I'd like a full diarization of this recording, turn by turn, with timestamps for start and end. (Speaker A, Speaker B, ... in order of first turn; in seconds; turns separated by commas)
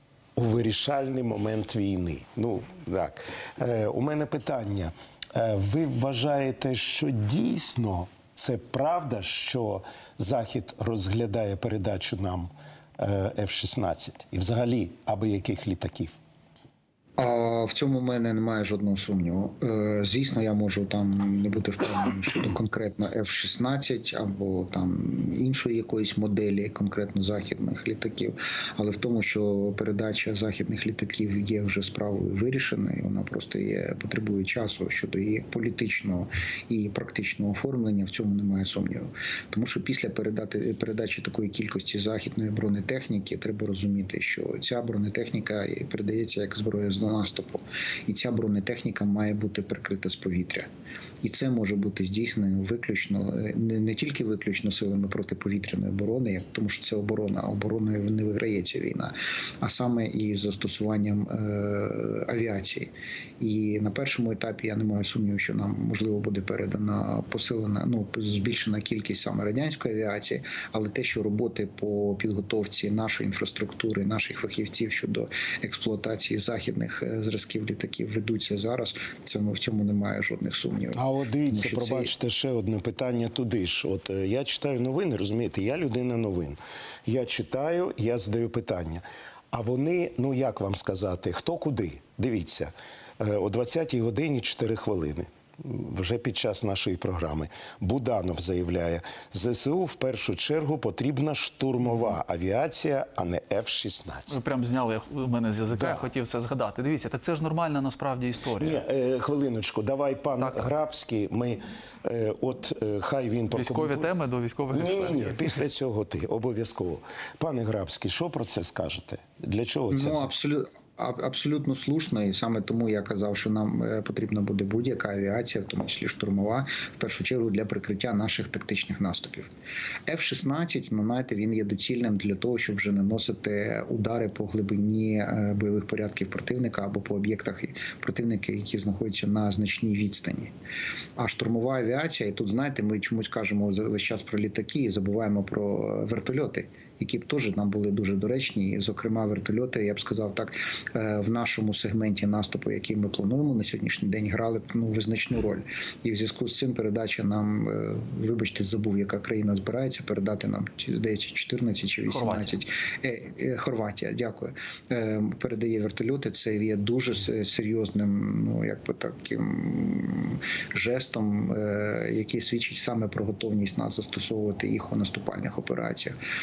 Speaker A: 0.4-16.1, Speaker B: 17.2-50.7, Speaker B: 51.2-82.1, Speaker A: 81.0-104.4, Speaker C: 104.3-108.8, Speaker A: 105.7-106.0, Speaker A: 108.6-114.1, Speaker C: 110.4-110.7, Speaker C: 113.5-115.4, Speaker A: 114.7-120.3, Speaker B: 119.9-129.5, Speaker B: 130.1-140.5, Speaker B: 141.2-176.2, Speaker C: 162.1-162.6